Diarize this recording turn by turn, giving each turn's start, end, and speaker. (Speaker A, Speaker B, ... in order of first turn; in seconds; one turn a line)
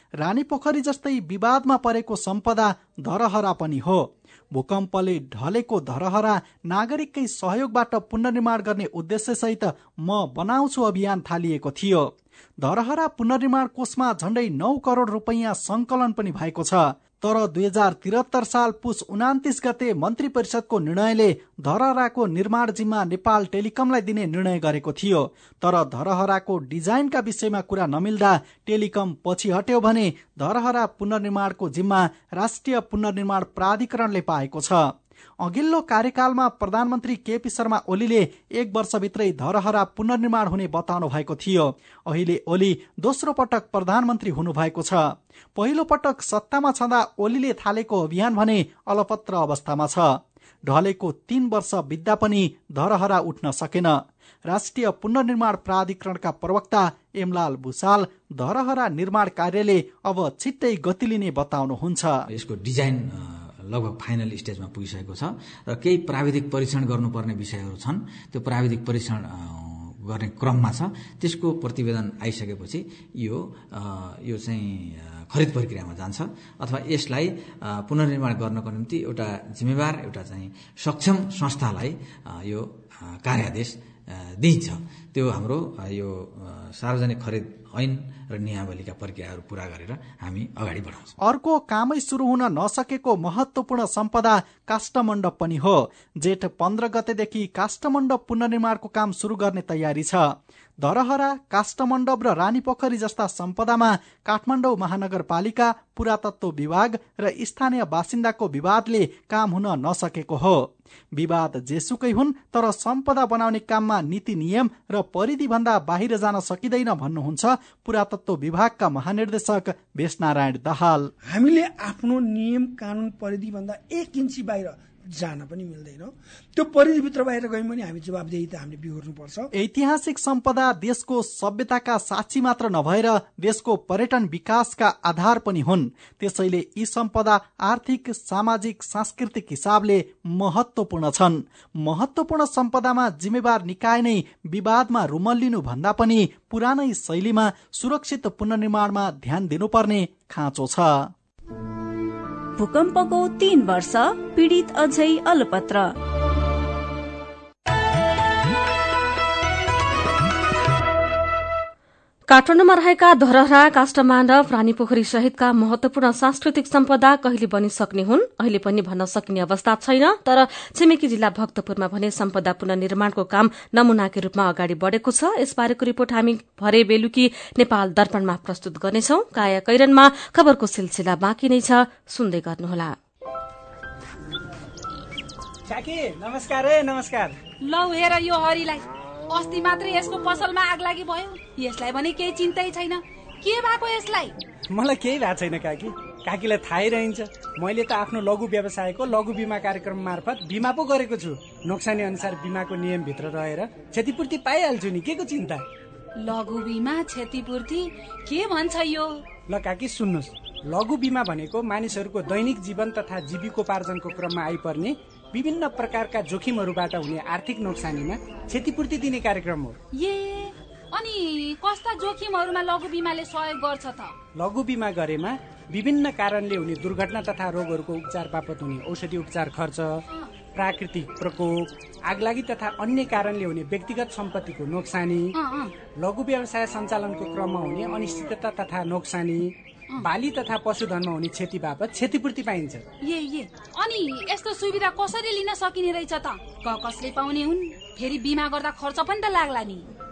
Speaker A: 0.2-34.9
Speaker A: 35.4-62.2
Speaker B: 62.3-91.1
Speaker A: 91.2-100.2
Speaker A: 100.8-121.1
Speaker C: 121.2-129.5
Speaker A: 129.5-151.1
Speaker D: 152.6-155.8
Speaker E: 162.3-182.9
Speaker F: 185.7-187.3
Speaker G: 187.6-194.3
Speaker F: 194.7-205.6
Speaker G: 206.2-209.2
Speaker F: 209.5-219.8
Speaker G: 219.9-224.1
Speaker F: 224.4-230.0
Speaker F: 230.6-235.3
Speaker G: 235.4-235.7
Speaker F: 236.0-242.8
Speaker G: 243.0-249.8